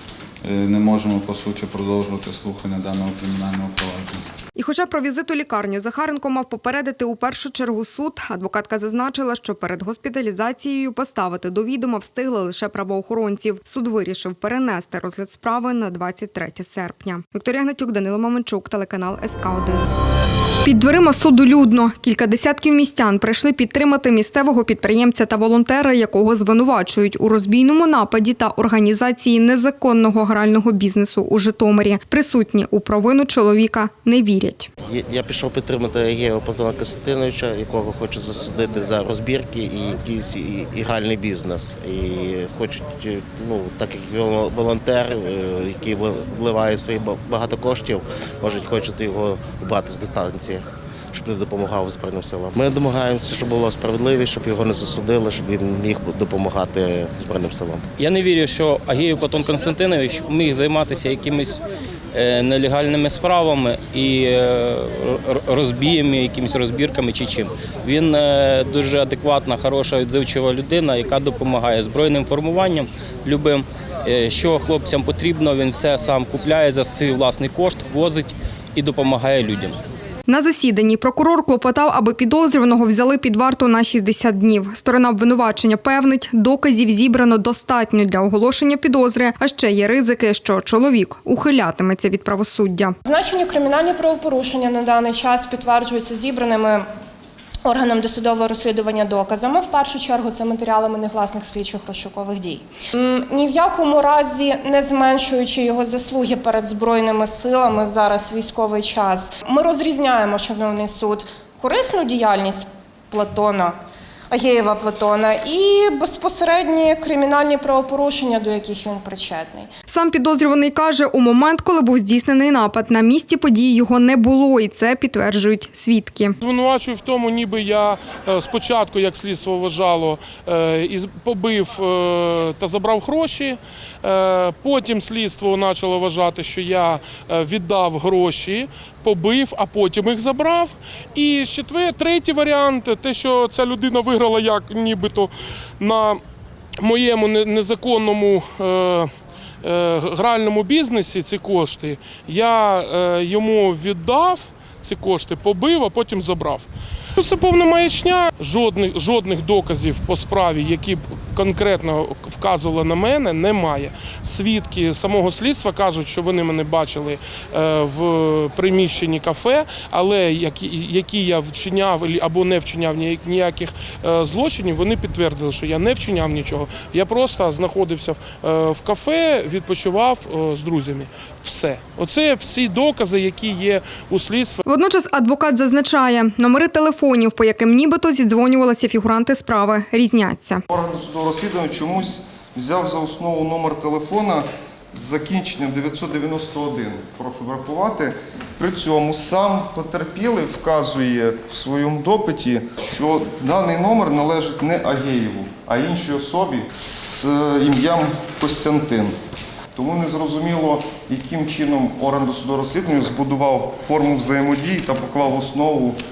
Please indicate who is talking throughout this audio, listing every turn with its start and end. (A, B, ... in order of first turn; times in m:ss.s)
0:00.4-0:04.2 A
0:04.6-0:19.8 B
0:20.6-0:34.7 B
0:34.9-0:57.8 C
0:58.0-1:01.6 D
1:02.1-1:19.8 D
1:20.3-1:32.9 B
1:33.0-1:36.9 E
1:37.6-1:53.8 E
1:54.3-1:59.7 E
1:59.9-2:06.4 B
2:06.4-2:26.2 F
2:26.8-2:29.1 F
2:29.6-3:04.6 F
3:04.7-3:10.6 B
3:10.7-3:29.1 G
3:29.7-3:36.0 G